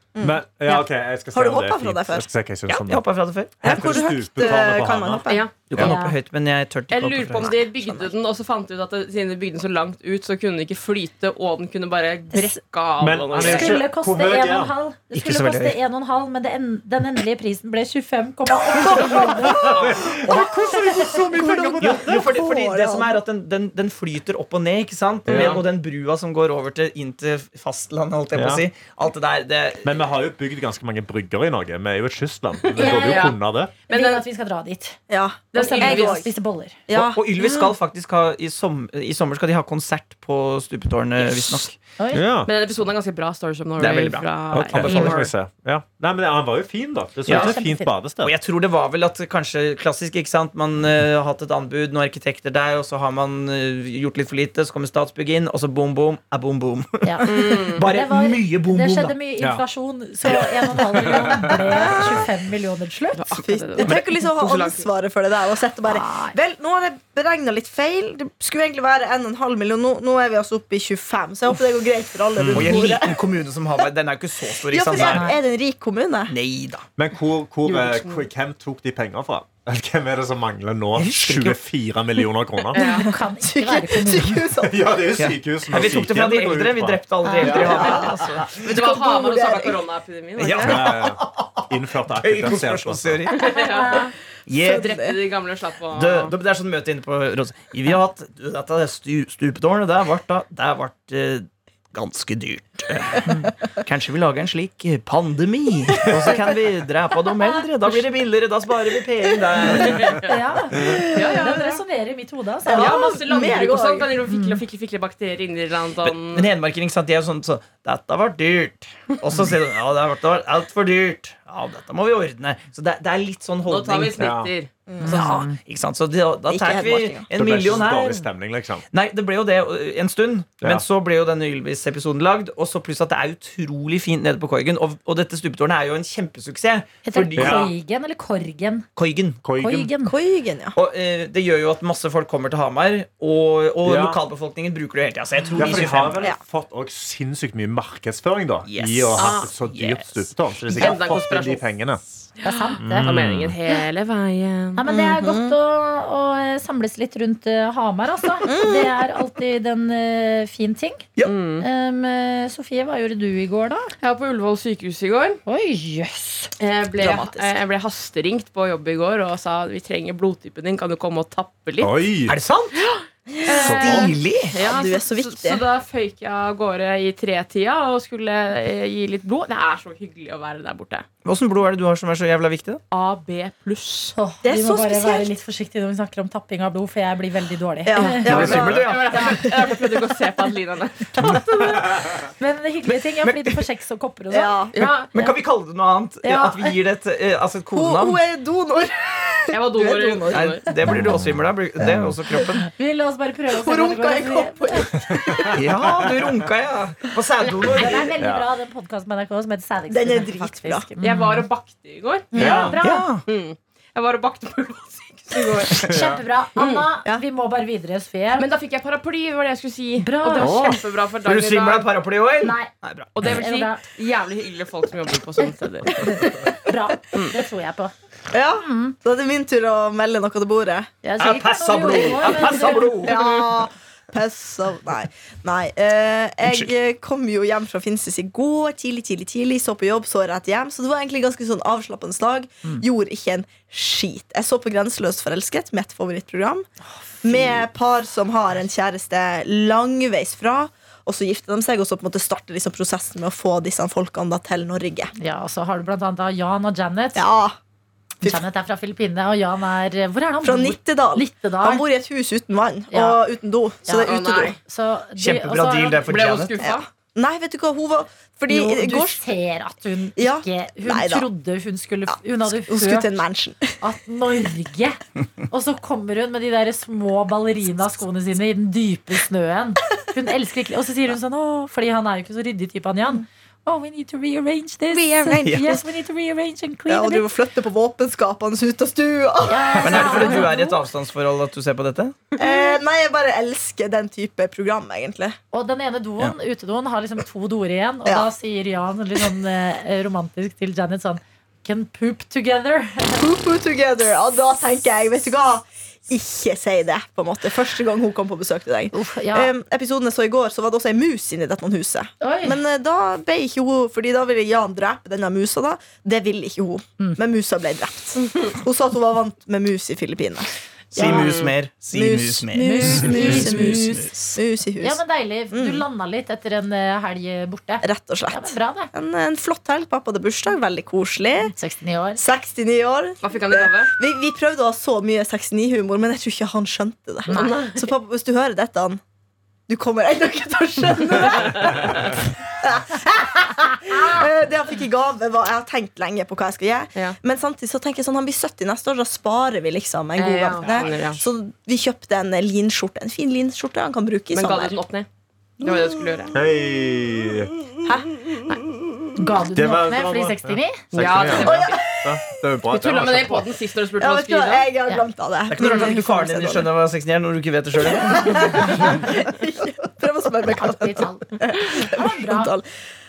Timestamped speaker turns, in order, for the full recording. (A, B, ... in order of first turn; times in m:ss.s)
0:00.1-0:00.8 A
0:00.2-0:03.0 B
0:01.3-0:02.3 A
0:02.7-0:04.0 C
0:03.6-0:05.9 B
0:03.6-0:05.4 A
0:05.3-0:05.5 D
0:05.7-0:07.5 C
0:05.7-0:06.2 E
0:06.9-0:13.8 D
0:07.4-0:08.1 A
0:12.3-0:12.6 E
0:13.0-0:14.7 B
0:13.4-0:19.7 E
0:15.1-0:15.8 C
0:18.7-0:23.2 A
0:19.3-0:22.2 B
0:20.3-0:21.2 E
0:21.8-0:30.0 C
0:25.2-0:25.6 B
0:28.3-0:28.6 B
0:29.8-0:33.7 B
0:32.6-0:33.4 D
0:32.8-0:33.3 E
0:33.9-0:34.2 D
0:33.9-0:35.0 E
0:35.1-0:36.3 A
0:35.5-0:36.2 D
0:35.5-0:36.8 E
0:36.9-0:37.4 A
0:36.9-0:41.7 C
0:41.2-0:41.5 D
0:42.0-0:42.2 E
0:42.1-0:42.5 B
0:42.4-0:45.3 D
0:43.8-0:45.2 C
0:44.5-0:48.3 B
0:47.3-0:47.5 C
0:47.3-0:47.9 E
0:48.2-0:59.1 C
0:57.0-1:03.3 E
0:57.2-0:57.9 D
1:00.3-1:02.0 B
1:03.1-1:04.9 D
1:03.4-1:13.2 A
1:05.8-1:06.4 E
1:12.4-1:12.8 B
1:12.5-1:15.3 C
1:14.7-1:16.3 A
1:15.0-1:15.4 E
1:16.3-1:16.8 C
1:17.0-1:22.8 B
1:17.7-1:18.2 D
1:21.0-1:21.6 C
1:22.7-1:23.1 D
1:22.8-1:24.5 E
1:22.8-1:25.0 A
1:24.6-1:27.9 B
1:25.2-1:28.6 C
1:27.2-1:27.6 E
1:27.4-1:30.9 D
1:27.5-1:29.8 A
1:30.4-1:33.4 C
1:30.6-1:33.2 B
1:33.3-1:36.3 D
1:33.4-1:34.1 E
1:34.5-1:35.0 C
1:34.6-1:35.2 A
1:35.9-1:50.2 C
1:49.7-1:50.3 D
1:50.2-1:53.1 E
1:50.8-1:51.4 A
1:51.1-1:51.8 D
1:52.7-1:54.2 A
1:52.7-1:56.5 D
1:54.3-1:54.6 E
1:56.0-2:04.3 C
2:03.6-2:04.7 D
2:04.2-2:04.5 B
2:04.9-2:05.4 A
2:05.0-2:05.6 E
2:05.0-2:08.2 C
2:06.5-2:07.3 A
2:07.3-2:08.8 B
2:08.9-2:17.7 C
2:17.0-2:18.8 E
2:17.4-2:17.7 B
2:19.0-2:19.4 C
2:19.4-2:19.9 B
2:19.6-2:20.1 E
2:20.0-2:20.8 A
2:20.7-2:26.2 C
2:23.8-2:24.2 B
2:25.5-2:32.0 B
2:28.6-2:30.3 C
2:29.2-2:29.5 D
2:30.7-2:31.6 D
2:32.4-2:33.1 E
2:32.4-2:34.8 D
2:32.8-2:33.6 B
2:34.8-2:41.0 E
2:34.9-2:35.6 A
2:38.4-2:39.0 A
2:41.2-2:41.7 D
2:41.6-2:43.9 E
2:44.0-2:45.4 D
2:45.4-2:46.5 E
2:46.6-2:51.9 D
2:47.0-2:47.6 A
2:51.8-2:52.3 B
2:52.3-2:52.9 C
2:52.8-3:01.0 D
2:53.3-2:55.6 A
2:53.5-2:54.6 C
2:53.6-2:54.1 B
3:01.2-3:02.8 C
3:02.9-3:04.1 D
3:04.1-3:08.4 E
3:04.4-3:05.3 A
3:07.8-3:09.8 A
3:08.0-3:11.4 D
3:08.3-3:09.3 C
3:08.3-3:08.8 B
3:11.2-3:15.3 E
3:12.9-3:13.6 C
3:14.3-3:14.8 A
3:14.7-3:15.1 D
3:14.8-3:18.2 C
3:16.2-3:16.7 E
3:17.7-3:20.5 A
3:19.5-3:20.7 D
3:20.3-3:22.6 C
3:20.8-3:22.1 B
3:22.6-3:24.9 E
3:23.5-3:25.6 A
3:25.1-3:26.1 B
3:25.5-3:28.1 C
3:27.5-3:28.1 D
3:27.7-3:31.5 E
3:28.2-3:28.4 B
3:29.9-3:30.9 A
3:31.0-3:35.9 D
3:32.3-3:33.1 E
3:32.4-3:32.8 B
3:32.8-3:33.2 C
3:35.8-3:38.5 E
3:35.9-3:36.2 B
3:36.6-3:36.8 D
3:38.4-3:41.9 D
3:40.0-3:40.8 E
3:40.4-3:40.7 C
3:41.2-3:43.1 C
3:42.4-3:43.8 E
3:43.1-3:46.3 D
3:46.5-3:47.9 E
3:48.3-3:50.9 A
3:48.6-3:49.0 E
3:51.0-3:53.1 E
3:51.2-3:53.2 C
3:53.0-4:06.7 A
3:56.4-3:56.7 C
4:07.2-4:07.6 E
4:07.2-4:15.1 A
4:15.2-4:17.2 E
4:17.2-4:17.6 A
4:18.2-4:21.8 E
4:20.4-4:24.6 A
4:22.9-4:23.2 E
4:23.8-4:26.0 E
4:24.0-4:24.6 D
4:25.2-4:26.6 C
4:26.0-4:26.8 D
4:26.6-4:29.2 A
4:28.5-4:33.1 E
4:30.2-4:31.3 A
4:32.5-4:33.7 A
4:33.8-4:47.3 E
4:44.9-4:45.8 A
4:46.9-4:50.5 A
4:49.5-4:50.8 E
4:49.8-4:52.2 C
4:52.4-4:55.4 A
4:55.5-5:03.2 E
5:03.2-5:21.4 A
5:08.9-5:09.5 E
5:12.2-5:12.6 E
5:20.9-5:24.1 C
5:21.1-5:21.5 D
5:21.9-5:25.8 A
5:22.6-5:24.0 E
5:24.8-5:28.9 E
5:27.8-5:31.5 A
5:31.5-5:32.2 E
5:32.2-5:39.0 A
5:33.2-5:33.9 D
5:37.3-5:37.6 E
5:37.3-5:37.8 D
5:39.7-5:54.8 A
5:50.2-5:51.2 D
5:54.3-5:55.1 D
5:55.6-5:56.3 D
5:56.3-5:57.5 B
5:57.8-5:58.2 A
5:59.2-6:00.9 E
5:59.5-6:03.5 B
6:00.9-6:01.8 D
6:01.0-6:01.3 C
6:01.3-6:02.4 A
6:02.7-6:04.7 D
6:04.0-6:06.7 A
6:05.5-6:08.9 C
6:07.8-6:12.6 A
6:10.6-6:12.5 E